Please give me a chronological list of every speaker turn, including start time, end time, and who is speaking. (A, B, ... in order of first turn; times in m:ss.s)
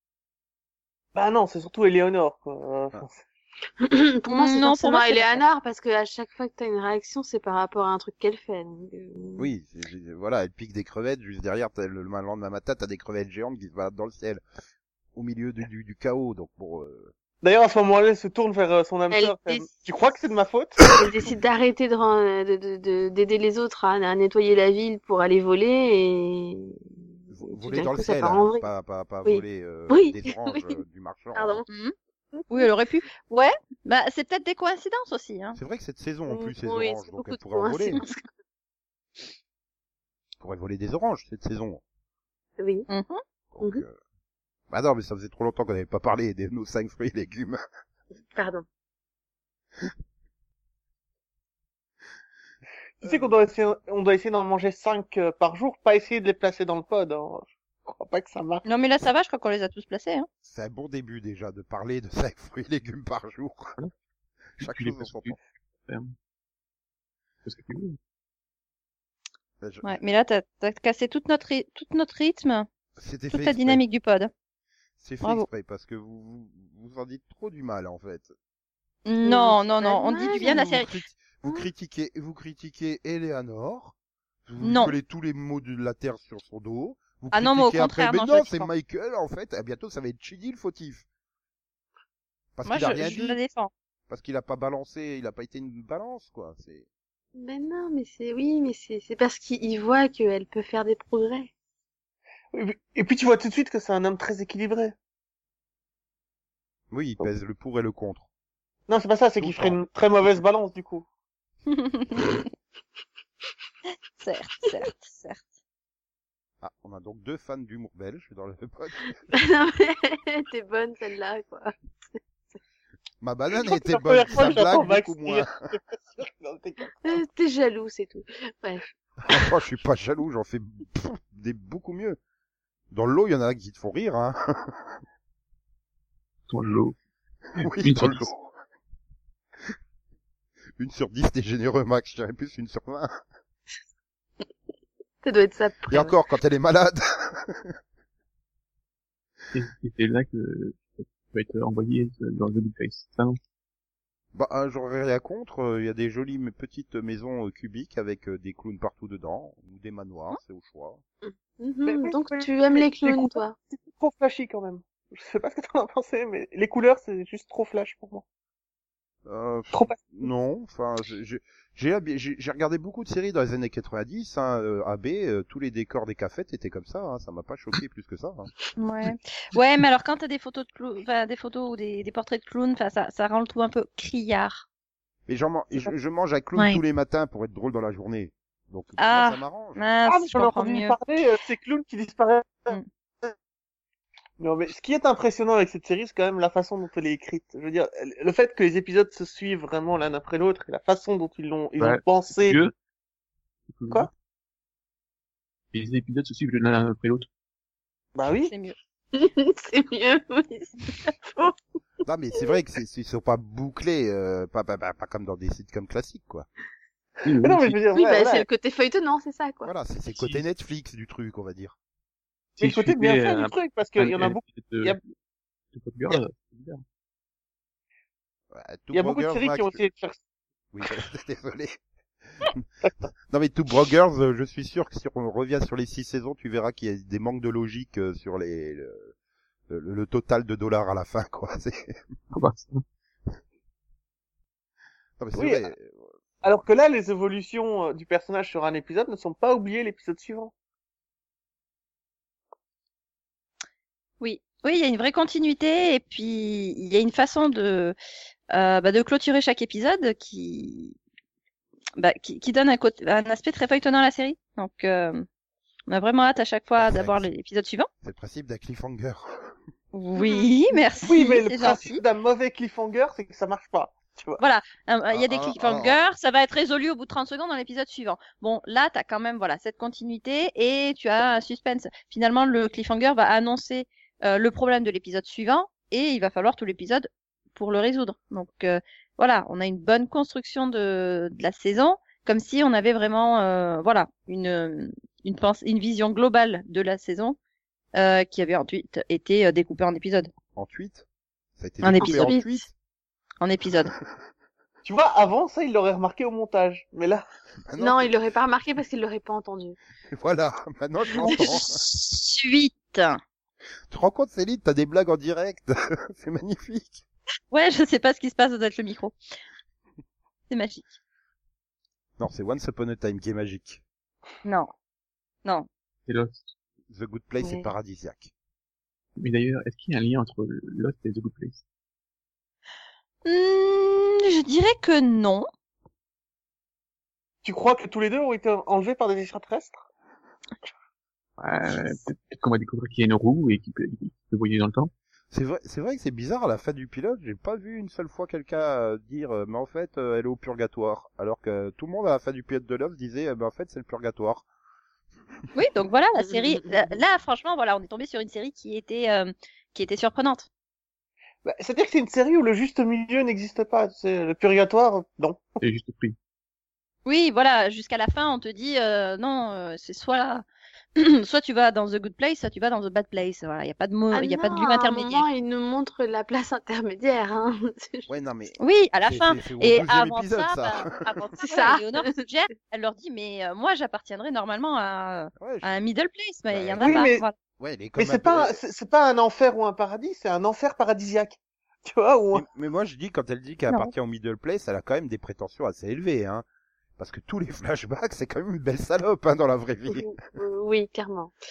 0:01.1-0:03.2 A
0:03.8-0:09.5 B
0:04.3-0:05.4 C
0:09.4-0:14.4 D
0:15.2-0:17.1 D
0:17.4-0:21.3 A
0:19.1-0:19.7 B
0:20.9-0:26.8 B
0:27.3-0:31.7 D
0:27.4-0:28.7 B
0:29.2-0:30.8 B
0:31.4-0:31.7 B
0:31.7-0:31.9 C
0:32.4-0:32.7 B
0:32.5-0:35.6 C
0:35.6-0:38.0 D
0:36.3-0:38.3 B
0:40.4-0:41.8 D
0:42.6-0:42.9 B
0:42.9-0:43.2 C
0:43.5-0:44.0 D
0:44.7-0:47.6 D
0:48.3-0:48.6 B
0:53.0-0:58.6 A
0:53.0-0:53.3 D
0:58.6-1:00.3 C
1:00.5-1:03.8 D
1:04.6-1:05.4 D
1:04.6-1:06.1 E
1:07.4-1:08.0 E
1:09.6-1:10.0 D
1:09.8-1:12.7 C
1:13.0-1:13.8 D
1:13.3-1:14.3 C
1:15.0-1:18.3 D
1:19.0-1:21.0 C
1:19.2-1:20.6 B
1:20.4-1:24.0 D
1:24.5-1:31.0 D
1:24.6-1:25.0 C
1:27.3-1:28.7 C
1:32.6-1:33.4 D
1:32.6-1:33.7 C
1:34.1-1:36.9 D
1:37.4-1:41.5 B
1:42.5-1:45.0 A
1:46.9-1:48.3 D
1:48.9-1:51.1 A
1:49.4-1:49.8 D
1:51.7-1:52.3 C
1:54.2-1:55.4 C
1:56.6-1:59.2 D
1:59.3-2:01.7 B
2:03.2-2:05.7 D
2:03.6-2:07.2 A
2:07.0-2:08.8 B
2:09.3-2:12.2 D
2:12.9-2:15.0 D
2:16.5-2:17.0 E
2:17.6-2:18.3 E
2:17.6-2:18.5 D
2:20.8-2:23.1 D
2:25.2-2:26.2 B
2:25.9-2:27.7 D
2:29.5-2:33.4 E
2:34.3-2:41.0 D
2:41.2-2:43.6 B
2:41.9-2:48.2 A
2:49.3-2:58.5 D
2:49.7-2:50.3 A
2:58.8-3:04.7 C
3:05.3-3:09.8 D
3:06.6-3:06.8 C
3:09.0-3:11.0 C
3:10.1-3:13.3 A
3:14.4-3:22.6 A
3:21.8-3:22.7 E
3:23.7-3:24.1 E
3:25.7-3:27.3 E
3:28.2-3:28.5 A
3:28.5-3:28.8 C
3:29.1-3:31.6 B
3:32.0-3:36.5 D
3:37.2-3:37.8 E
3:37.4-3:38.5 A
3:38.0-3:39.7 B
3:39.6-3:41.8 D
3:40.1-3:40.4 E
3:42.6-3:45.0 A
3:42.6-3:45.1 E
3:45.7-3:46.8 E
3:48.5-3:49.9 D
3:48.9-3:50.2 A
3:50.7-3:51.8 D
3:53.3-3:59.1 D
3:59.7-4:02.0 D
4:02.3-4:02.8 E
4:05.2-4:06.1 D
4:05.4-4:05.6 A
4:06.4-4:10.5 A
4:14.2-4:18.0 C
4:18.5-4:21.0 C
4:22.0-4:25.3 C
4:25.9-4:27.9 C
4:26.8-4:27.3 D
4:28.0-4:29.6 D
4:29.9-4:32.0 C
4:30.2-4:30.5 B
4:31.0-4:34.4 A
4:34.4-4:57.4 C
4:35.1-4:36.0 D
4:58.0-5:00.3 C
5:00.6-5:01.0 D
5:01.6-5:02.7 D
5:01.8-5:02.4 C
5:02.0-5:02.6 B
5:03.4-5:03.9 C
5:04.8-5:07.3 A
5:07.7-5:08.1 D
5:07.8-5:09.8 B
5:10.1-5:11.8 D
5:11.2-5:13.2 C
5:13.9-5:17.0 D
5:17.5-5:19.2 C
5:20.5-5:20.9 C
5:22.2-5:23.8 D
5:24.4-5:24.7 C
5:26.1-5:26.4 E
5:26.9-5:28.3 D
5:29.2-5:31.6 E
5:33.2-5:35.5 C
5:37.4-5:39.9 A
5:41.4-5:44.9 E
5:45.3-5:54.5 D
5:55.5-6:00.5 C
6:01.4-6:05.6 A
6:05.6-6:06.2 E
6:07.1-6:10.4 C
6:11.0-6:15.3 C
6:14.1-6:18.1 B
6:18.1-6:21.2 D
6:18.6-6:27.4 C
6:21.4-6:22.0 B
6:25.4-6:25.7 D
6:26.5-6:28.6 D
6:26.8-6:27.2 A
6:28.0-6:32.4 A
6:32.3-6:36.4 D
6:37.0-6:40.2 D
6:39.9-6:41.3 B